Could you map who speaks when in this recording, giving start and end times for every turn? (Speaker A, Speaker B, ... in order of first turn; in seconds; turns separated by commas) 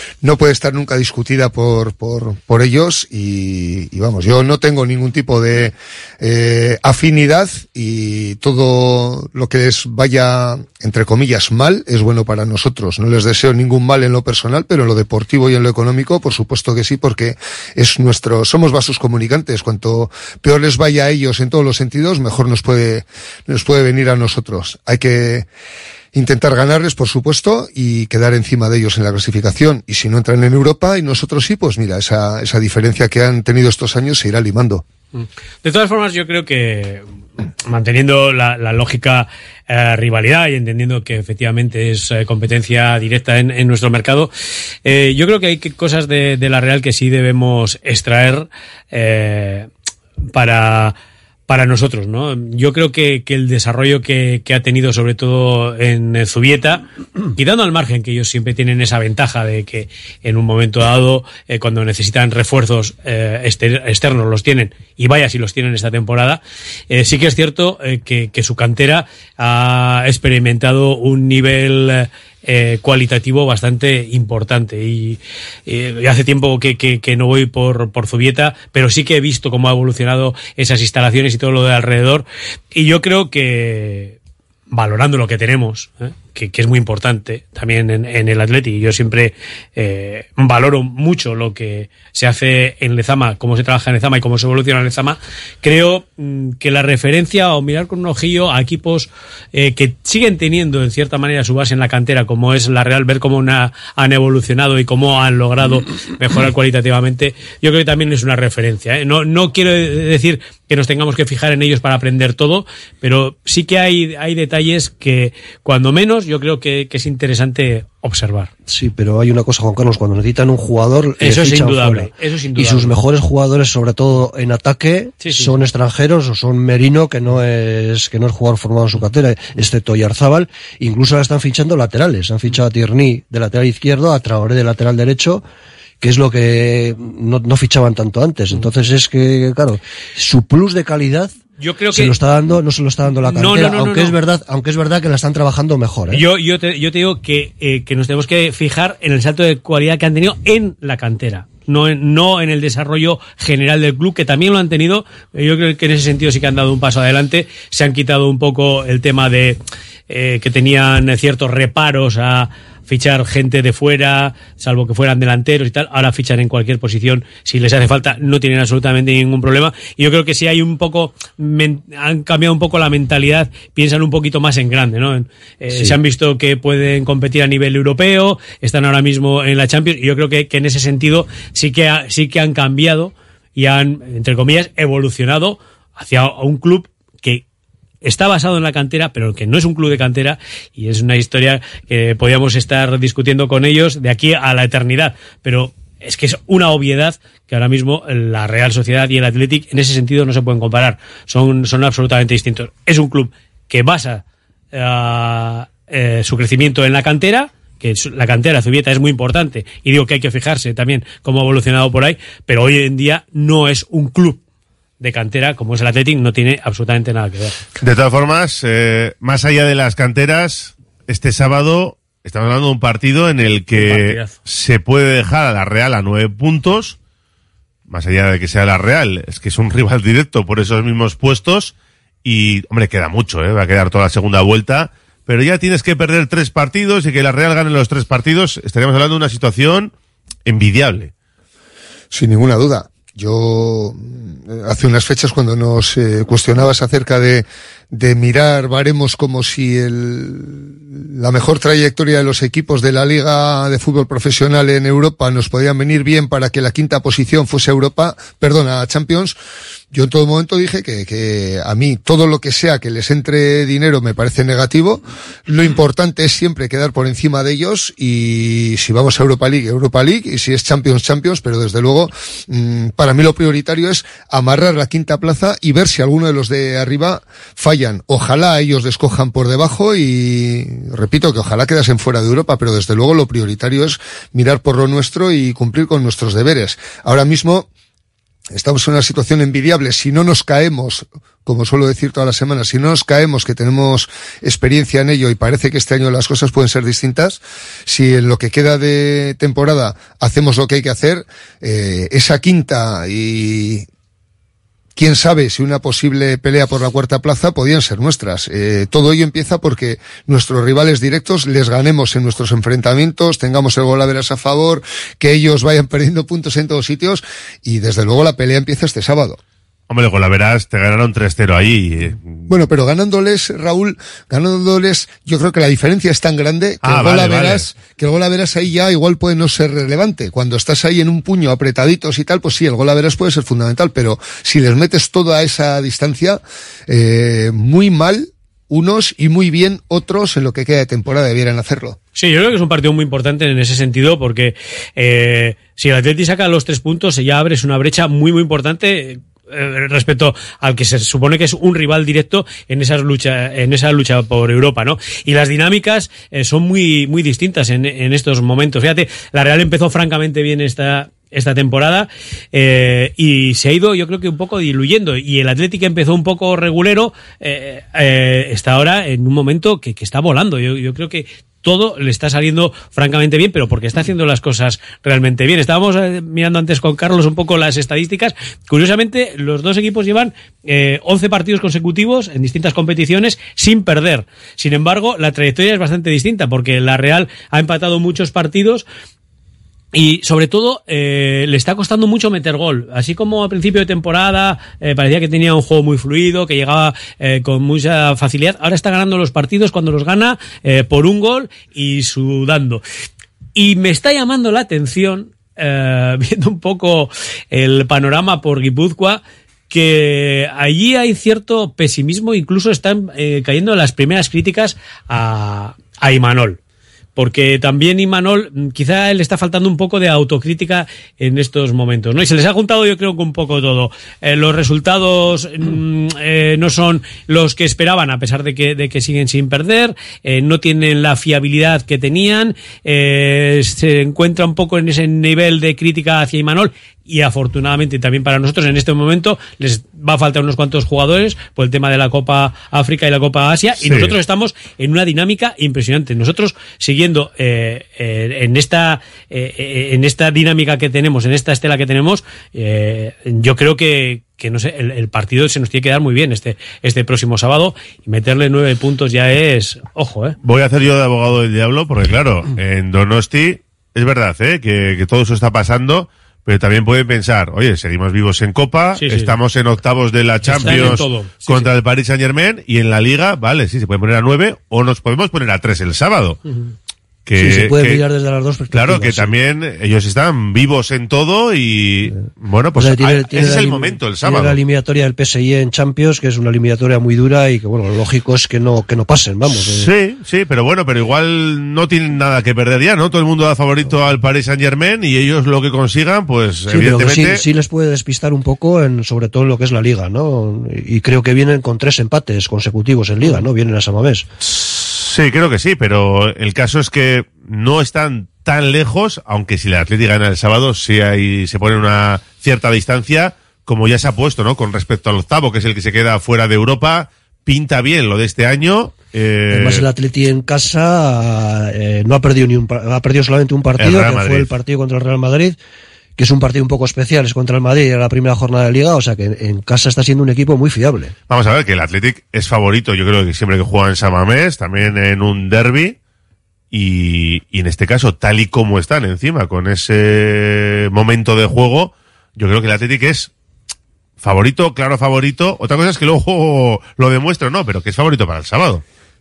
Speaker A: 0.2-25.5, Speaker A: 26.1-34.8, Speaker B: 35.1-37.0, Speaker B: 37.7-44.3, Speaker B: 44.9-49.7, Speaker B: 50.3-51.0, Speaker B: 51.5-84.2, Speaker B: 84.7-118.5, Speaker C: 118.7-135.4, Speaker B: 121.2-123.0, Speaker B: 125.2-125.5, Speaker C: 136.0-141.3, Speaker B: 141.6-142.2, Speaker C: 141.9-146.2, Speaker B: 143.2-144.2, Speaker B: 146.1-187.4, Speaker C: 175.7-176.0, Speaker B: 188.0-214.4, Speaker B: 215.0-217.6, Speaker D: 217.8-227.0, Speaker B: 223.7-224.4, Speaker D: 227.9-239.9, Speaker D: 240.5-241.1, Speaker A: 242.1-259.4, Speaker A: 259.9-287.7, Speaker A: 288.5-303.9, Speaker A: 305.0-319.4, Speaker D: 319.9-322.5, Speaker A: 322.5-342.0, Speaker D: 326.8-327.7, Speaker B: 342.1-388.9, Speaker B: 389.9-402.8, Speaker B: 403.6-416.6, Speaker B: 417.2-460.4, Speaker D: 443.8-444.2, Speaker D: 460.4-476.4, Speaker B: 469.0-469.4, Speaker B: 470.4-471.7, Speaker B: 476.5-476.7, Speaker D: 477.3-478.0, Speaker C: 477.4-479.4, Speaker D: 478.7-484.6, Speaker C: 482.8-489.9, Speaker D: 489.6-497.4, Speaker C: 496.7-504.3, Speaker D: 504.4-519.8, Speaker C: 519.5-525.6, Speaker D: 523.8-524.5, Speaker C: 526.2-531.1, Speaker D: 531.3-536.0, Speaker D: 536.7-543.3, Speaker D: 544.2-548.8